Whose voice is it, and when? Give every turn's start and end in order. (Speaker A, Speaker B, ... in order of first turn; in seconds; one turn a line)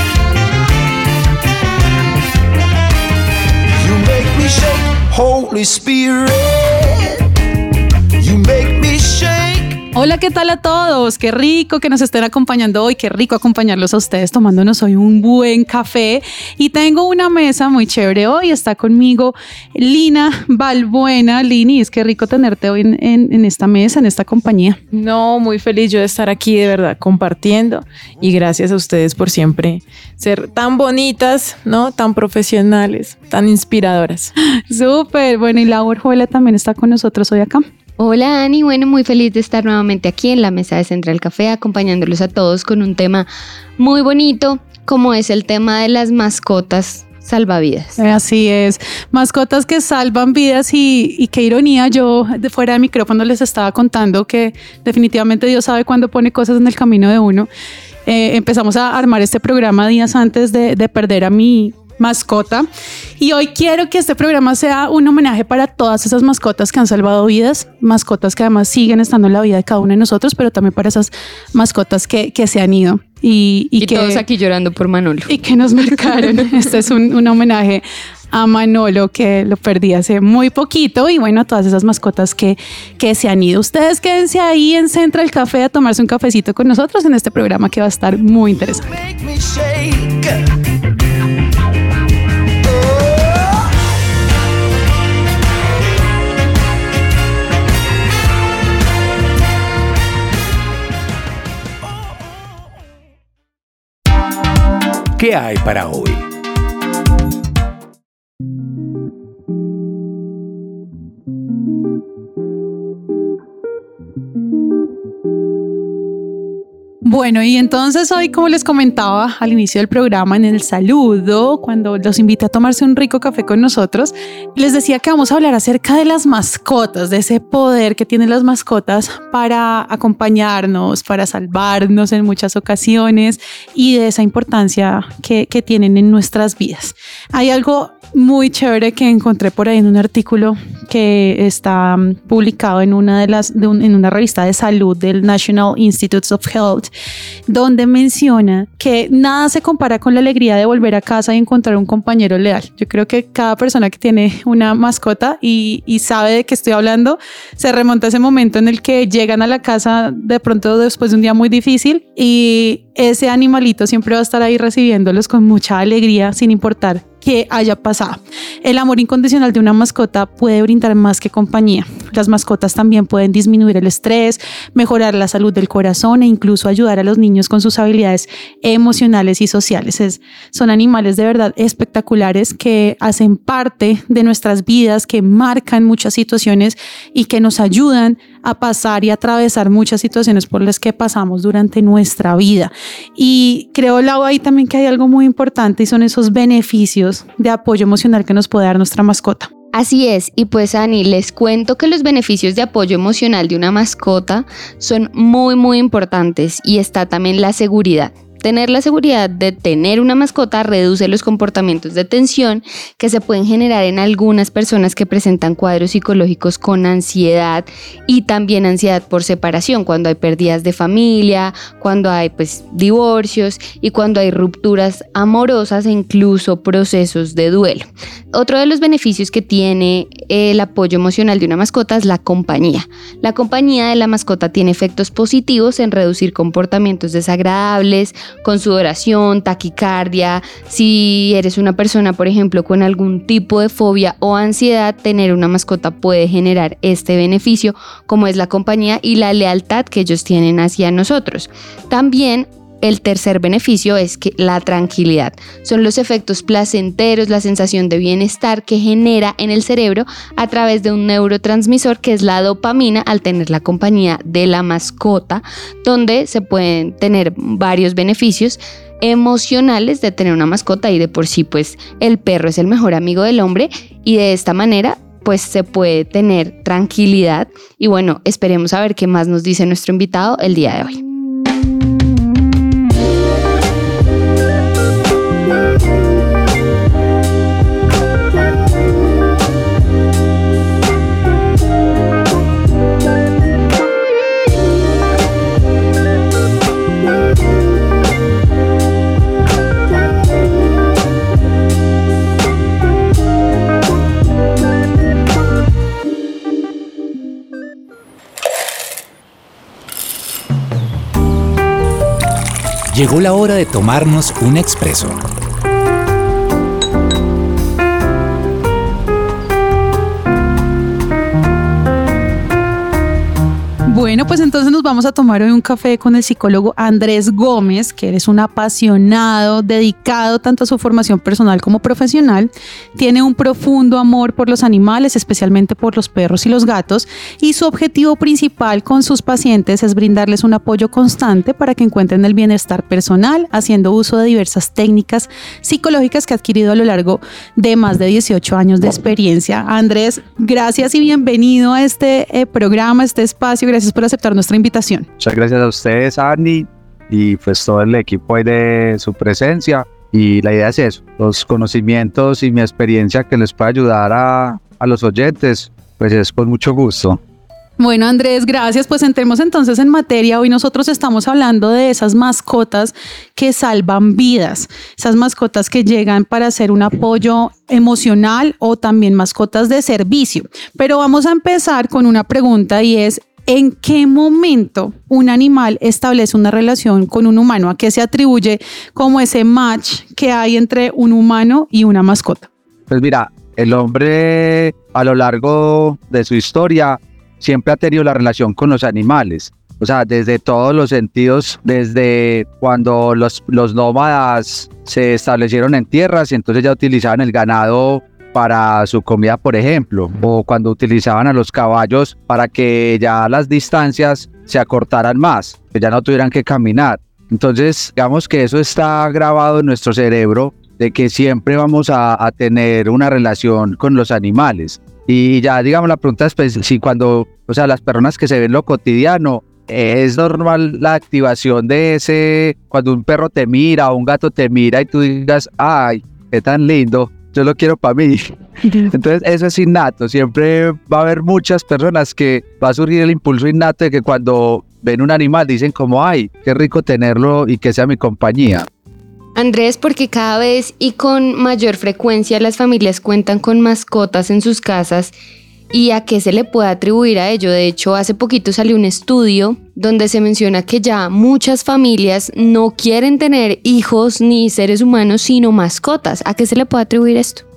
Speaker A: 3.8-7.2
Speaker A: 8.2-9.8
Speaker B: 9.9-24.8
Speaker C: 24.9-34.3
Speaker B: 34.6-37.6
Speaker D: 38.0-43.3
Speaker D: 43.8-48.0
Speaker B: 48.0-57.5
Speaker B: 58.1-62.7
Speaker B: 63.2-74.2
Speaker D: 73.8-75.4
Speaker B: 75.3-88.9
Speaker A: 88.9-90.5
Speaker A: 92.6-93.6
Speaker E: 105.2-106.2
Speaker B: 117.0-146.9
Speaker B: 147.5-199.5
Speaker D: 199.7-281.0
Speaker E: 312.9-315.2
Speaker B: 323.9-355.1
Speaker F: 355.2-367.2
Speaker B: 367.8-392.5
Speaker F: 392.9-448.7
Speaker D: 449.4-455.1
Speaker D: 455.7-467.4